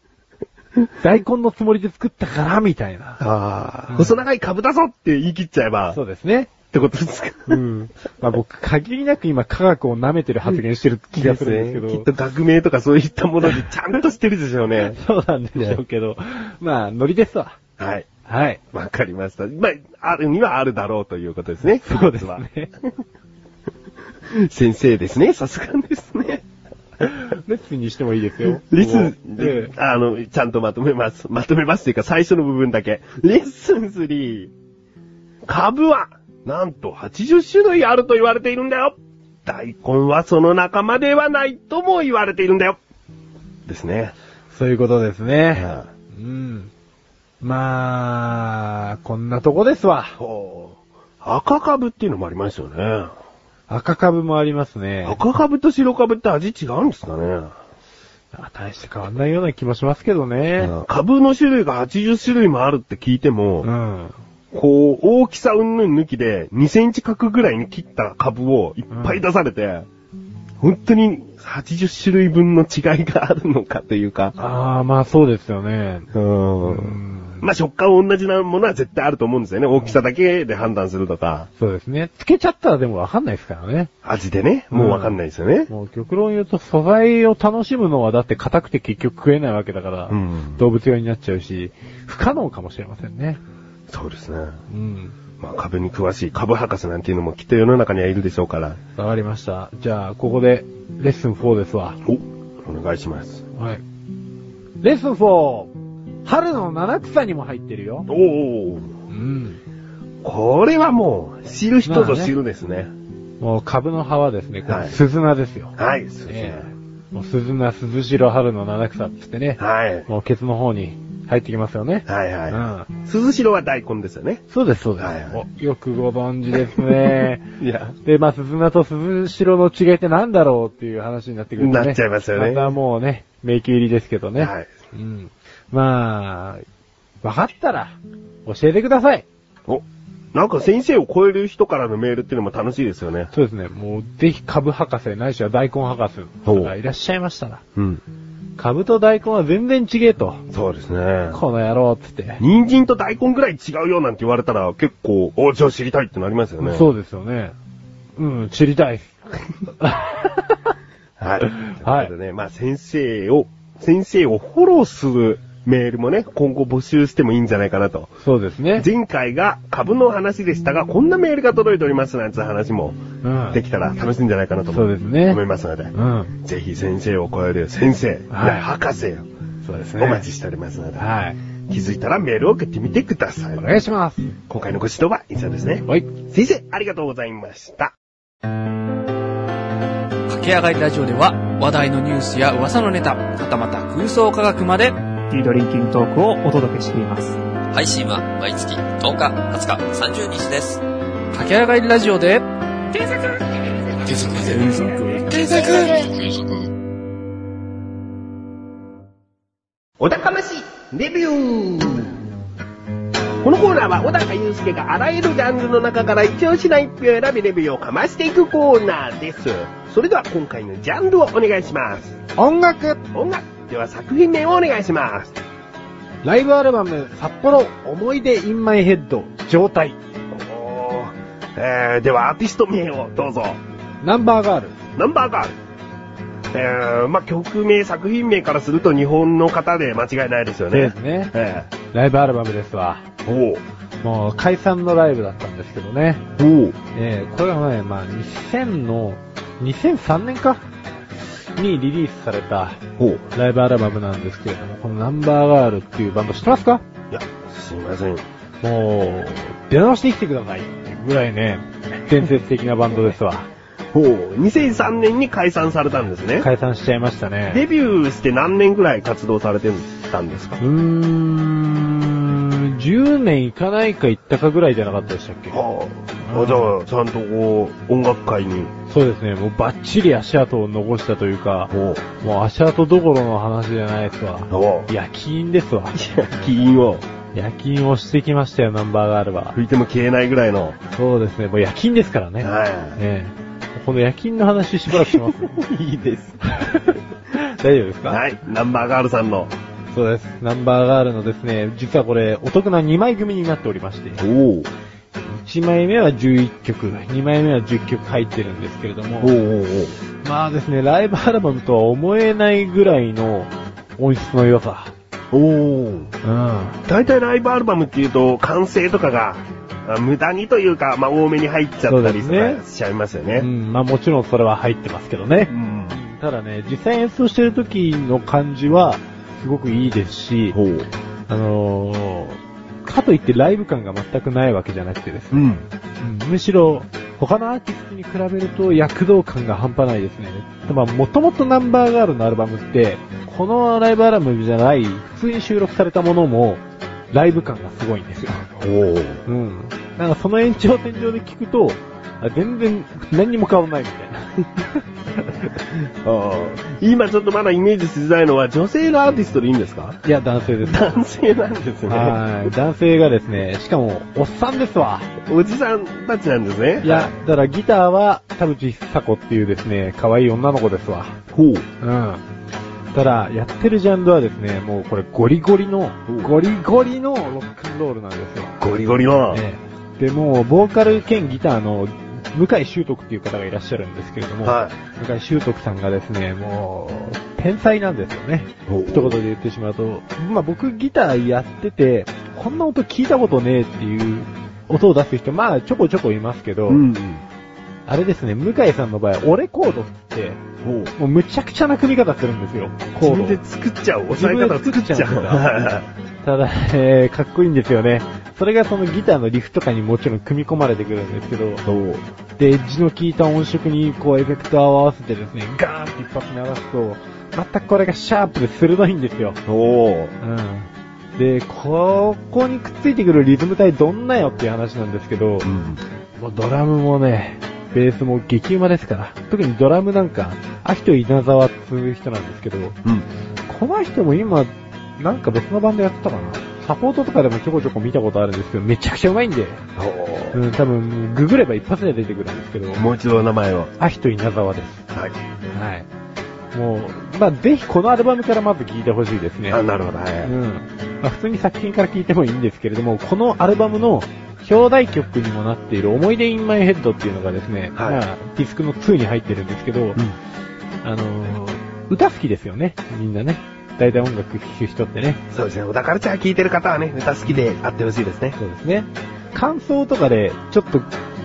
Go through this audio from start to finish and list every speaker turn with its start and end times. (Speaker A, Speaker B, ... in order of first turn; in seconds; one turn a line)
Speaker A: 1.0-3.2
Speaker B: 3.2-6.0
Speaker A: 3.9-4.1
Speaker A: 5.9-6.5
Speaker B: 6.7-7.6
Speaker A: 7.5-12.1
Speaker B: 11.2-15.0
Speaker A: 14.9-17.6
Speaker B: 17.8-18.1
Speaker A: 18.2-18.6
Speaker B: 18.7-22.4
Speaker A: 21.8-22.7
Speaker B: 24.3-26.4
Speaker A: 27.0-29.7
Speaker B: 28.4-34.5
Speaker B: 35.5-42.8
Speaker B: 43.7-44.1
Speaker A: 44.5-46.7
Speaker B: 45.5-45.9
Speaker A: 47.4-50.2
Speaker B: 50.2-53.1
Speaker A: 53.7-55.2
Speaker B: 55.0-57.5
Speaker A: 58.3-60.7
Speaker B: 60.6-63.7
Speaker A: 63.6-64.1
Speaker B: 64.5-69.9
Speaker A: 68.9-69.2
Speaker B: 70.6-74.4
Speaker A: 74.4-76.1
Speaker B: 76.1-81.5
Speaker A: 76.6-77.5
Speaker A: 81.6-83.9
Speaker B: 84.0-85.7
Speaker A: 84.7-85.2
Speaker A: 85.7-93.4
Speaker B: 90.1-90.6
Speaker B: 93.9-94.6
Speaker A: 94.7-95.2
Speaker B: 95.4-98.8
Speaker A: 99.0-102.0
Speaker B: 102.0-103.4
Speaker A: 103.5-103.8
Speaker A: 104.8-105.7
Speaker A: 106.2-108.1
Speaker B: 108.1-108.9
Speaker A: 109.1-109.6
Speaker B: 110.2-112.9
Speaker A: 111.8-112.3
Speaker A: 113.4-115.7
Speaker B: 114.7-115.0
Speaker B: 115.8-116.7
Speaker A: 116.3-122.9
Speaker B: 119.6-120.1
Speaker B: 122.0-124.4
Speaker A: 124.5-127.5
Speaker B: 125.0-125.4
Speaker B: 126.7-128.0
Speaker A: 128.0-136.6
Speaker B: 131.6-132.8
Speaker B: 134.4-134.7
Speaker A: 137.2-139.2
Speaker B: 139.7-143.3
Speaker A: 143.3-147.6
Speaker B: 146.4-146.7
Speaker B: 147.8-148.0
Speaker A: 148.6-150.4
Speaker B: 150.5-151.4
Speaker A: 151.3-152.4
Speaker B: 152.4-156.9
Speaker A: 156.6-157.5
Speaker A: 158.2-160.7
Speaker B: 161.2-168.1
Speaker A: 161.4-162.1
Speaker A: 168.2-168.9
Speaker B: 168.8-179.3
Speaker A: 173.2-173.6
Speaker A: 174.7-175.4
Speaker A: 175.9-176.3
Speaker A: 178.3-178.7
Speaker A: 179.6-180.2
Speaker B: 180.0-181.1
Speaker A: 181.0-181.4
Speaker B: 181.7-183.7
Speaker A: 183.6-184.3
Speaker B: 184.5-187.9
Speaker C: 190.3-194.9
Speaker D: 195.3-197.4
Speaker E: 197.7-200.8
Speaker C: 201.3-202.4
Speaker C: 202.9-203.2
Speaker C: 204.0-206.3
Speaker B: 210.0-212.2
Speaker B: 213.4-222.2
Speaker A: 222.3-223.0
Speaker B: 223.1-225.3
Speaker A: 226.2-230.0
Speaker B: 230.3-233.6
Speaker A: 234.0-234.8
Speaker B: 234.9-235.5
Speaker B: 236.5-241.7
Speaker A: 240.7-243.0
Speaker B: 243.2-243.6
Speaker A: 244.0-246.2
Speaker B: 246.3-246.8
Speaker A: 246.9-250.6
Speaker A: 251.6-252.8
Speaker B: 253.0-253.2
Speaker A: 253.3-256.8
Speaker B: 257.1-258.2
Speaker A: 258.6-263.5
Speaker B: 263.9-266.5
Speaker A: 266.4-267.6
Speaker B: 267.5-270.6
Speaker A: 270.6-275.6
Speaker B: 275.5-278.7
Speaker A: 276.2-276.7
Speaker A: 278.9-286.0
Speaker B: 281.7-282.0
Speaker B: 284.5-284.9
Speaker B: 285.9-287.1
Speaker A: 287.3-289.6
Speaker B: 289.5-290.8
Speaker A: 290.9-295.6
Speaker B: 292.4-293.0
Speaker B: 294.9-296.4
Speaker A: 296.4-298.2
Speaker B: 298.1-299.5
Speaker A: 299.9-304.2
Speaker B: 304.2-304.7
Speaker A: 305.2-309.3
Speaker B: 309.2-310.0
Speaker A: 310.2-314.9
Speaker B: 315.3-316.1
Speaker A: 316.2-316.8
Speaker B: 316.8-323.5
Speaker A: 321.9-322.6
Speaker A: 323.4-330.6
Speaker B: 325.5-326.0
Speaker B: 330.5-330.9
Speaker A: 331.3-348.5
Speaker B: 335.3-335.6
Speaker B: 348.5-349.2
Speaker A: 349.2-354.8
Speaker B: 355.9-360.0
Speaker A: 360.0-360.9
Speaker B: 360.6-362.2
Speaker A: 361.9-365.1
Speaker B: 365.2-367.1
Speaker A: 366.8-371.2
Speaker B: 371.3-371.6
Speaker A: 371.8-372.2
Speaker A: 372.9-378.6
Speaker B: 378.6-379.4
Speaker A: 379.3-396.9
Speaker B: 384.4-384.8
Speaker B: 388.7-389.2
Speaker B: 396.7-397.2
Speaker A: 397.9-400.4
Speaker B: 400.6-400.9
Speaker A: 400.9-403.4
Speaker B: 403.0-405.9
Speaker A: 404.1-405.5
Speaker A: 406.2-411.6
Speaker B: 411.6-412.0
Speaker A: 412.4-419.4
Speaker B: 419.5-420.1
Speaker A: 420.2-425.5
Speaker B: 425.4-425.8
Speaker A: 426.2-432.8
Speaker A: 433.5-439.6
Speaker B: 439.8-440.4
Speaker A: 440.3-442.8
Speaker B: 442.7-443.7
Speaker A: 443.8-444.8
Speaker A: 445.5-445.9
Speaker A: 446.5-449.6
Speaker B: 449.5-450.3
Speaker A: 450.2-460.0
Speaker B: 457.7-458.0
Speaker A: 460.8-465.2
Speaker B: 465.3-468.4
Speaker A: 468.4-470.9